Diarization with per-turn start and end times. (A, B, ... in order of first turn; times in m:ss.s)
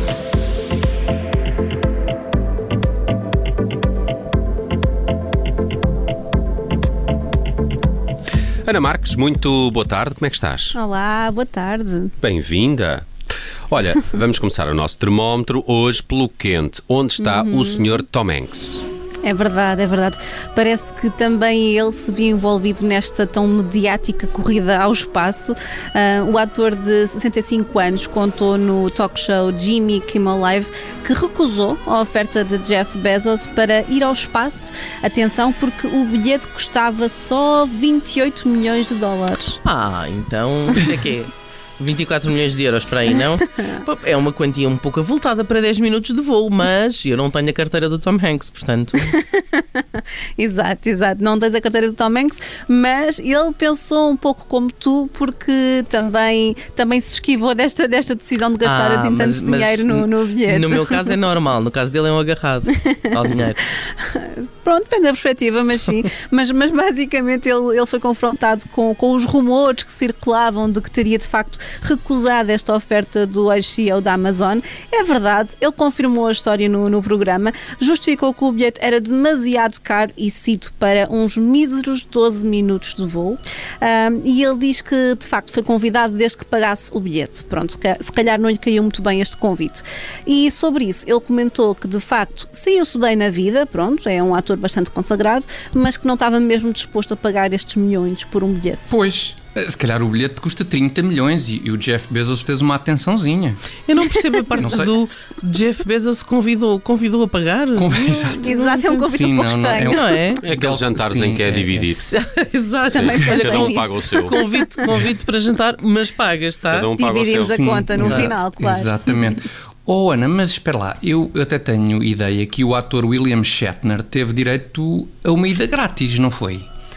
0:08.6-0:10.7 A
0:10.7-0:12.1 B
0:12.2-0:13.0 A
0:13.7-0:18.8 A
0:17.2-0:17.9 B
0:19.2-0:39.6 B
0:39.6-0:49.1 C
0:49.1-1:01.1 B
0:58.6-1:03.6 C
1:04.0-1:39.0 B
1:38.9-1:43.6 D
1:43.9-1:49.0 C
1:44.6-1:45.0 D
1:47.8-1:51.9 D
1:48.4-1:50.0 B
1:49.9-1:50.4 C
1:50.4-1:52.0 A
1:52.0-1:56.9 C
1:52.9-1:54.4 A
1:52.9-1:54.4 B
1:56.7-1:57.6 A
1:56.9-1:58.9 B
1:57.4-2:06.7 D
1:58.1-1:58.3 C